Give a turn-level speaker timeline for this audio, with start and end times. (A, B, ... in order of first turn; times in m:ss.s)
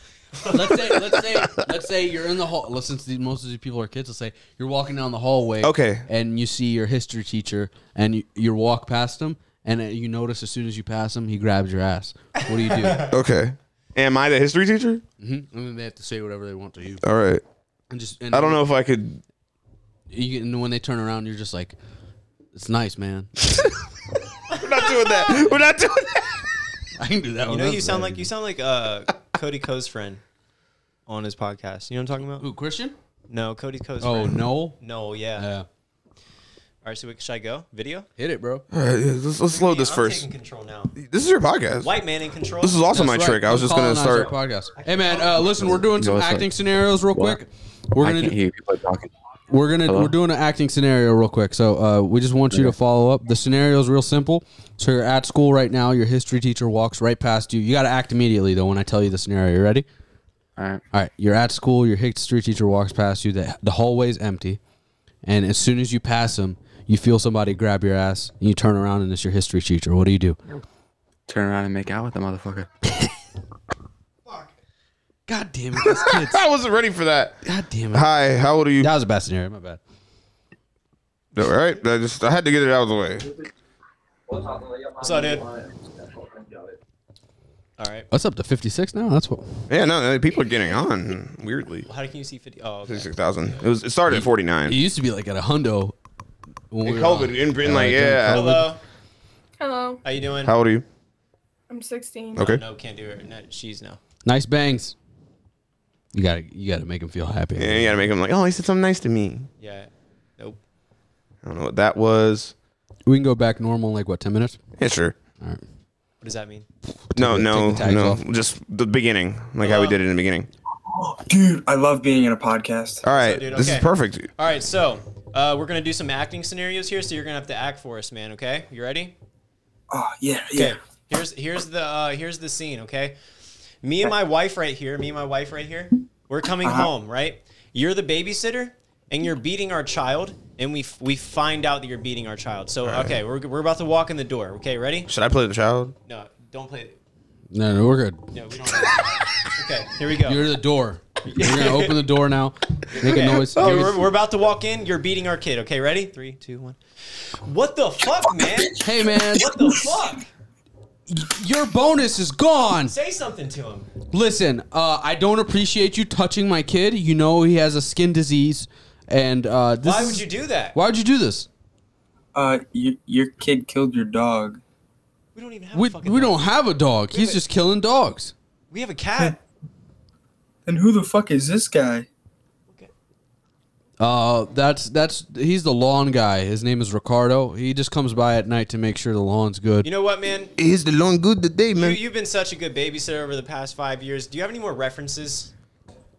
0:00.5-0:13.0 A
0:05.6-0:06.0 B
0:12.4-0:13.1 C
0:13.1-0:15.0 B
0:15.2-0:17.0 A
0:17.0-0:17.4 B
0:17.9-0:18.6 A
0:18.3-0:19.2 B
0:20.1-0:21.8 A
0:22.5-0:23.3 A
0:24.6-0:26.4 B
0:25.3-0:25.6 A
0:27.0-0:28.3 A
0:27.5-0:30.2 C
0:31.1-0:32.5 C
0:32.4-0:32.9 A
0:33.3-0:35.5 C
0:34.0-0:34.8 A
0:35.4-0:35.7 A
0:36.8-0:38.1 C
0:38.2-0:38.6 A
0:38.7-0:40.3 B
0:39.5-0:40.9 C
0:41.0-0:41.9 B
0:41.8-0:43.0 C
0:42.6-0:44.3 B
0:43.0-0:48.4 A
0:44.8-0:45.8 C
0:45.6-0:46.5 D
0:47.1-0:47.4 D
0:48.0-0:49.1 D
0:49.5-0:59.8 A
0:49.8-0:50.2 D
0:52.5-0:52.8 D
1:00.6-1:00.8 D
1:00.9-1:04.6 A
1:05.2-1:10.4 A
1:11.3-1:12.7 D
1:15.3-1:16.4 A
1:15.8-1:17.4 B
1:17.4-1:18.0 A
1:17.9-1:18.9 B
1:18.8-1:19.8 A
1:21.4-1:23.3 B
1:25.0-1:25.5 C
1:27.8-1:28.1 C
1:28.1-1:29.6 A
1:29.7-1:31.9 B
1:31.9-1:33.7 C
1:32.9-1:34.8 B
1:34.1-1:36.0 A
1:36.7-1:38.7 A
1:36.8-1:38.5 B
1:38.3-1:38.8 C
1:40.0-1:40.5 C
1:40.4-1:40.8 B
1:42.4-1:42.6 B
1:42.4-1:44.0 C
1:44.2-1:45.0 A
1:46.1-1:48.0 A
1:47.6-1:49.5 B
1:49.6-1:50.6 C
1:51.4-1:52.5 B
1:53.1-1:54.6 A
1:54.8-1:55.2 B
1:56.2-1:56.7 C
1:57.2-2:00.5 B
1:57.2-1:58.2 A
1:59.6-2:00.0 C
2:01.0-2:03.0 E
2:03.0-2:04.3 B
2:03.1-2:09.1 C
2:09.9-2:10.8 E
2:10.5-2:13.2 C
2:13.8-2:25.1 C
2:16.6-2:16.9 E
2:22.8-2:23.2 B
2:25.1-2:25.9 B
2:26.1-2:27.0 C
2:27.5-2:28.2 A
2:28.3-2:30.5 C
2:30.3-2:34.0 A
2:31.2-2:32.0 C
2:32.9-2:36.8 C
2:33.6-2:33.9 B
2:37.4-2:40.2 C
2:38.8-2:39.5 A
2:41.1-2:42.9 A
2:42.9-2:43.9 C
2:44.1-2:51.5 A
2:49.8-2:50.8 C
2:52.3-2:54.6 E
2:55.4-2:56.5 C
2:55.7-2:58.3 A
2:57.1-2:57.4 C
2:58.7-2:59.4 C
3:00.7-3:02.1 E
3:04.0-3:09.9 A
3:09.8-3:10.5 C
3:10.6-3:12.0 B
3:11.7-3:15.5 C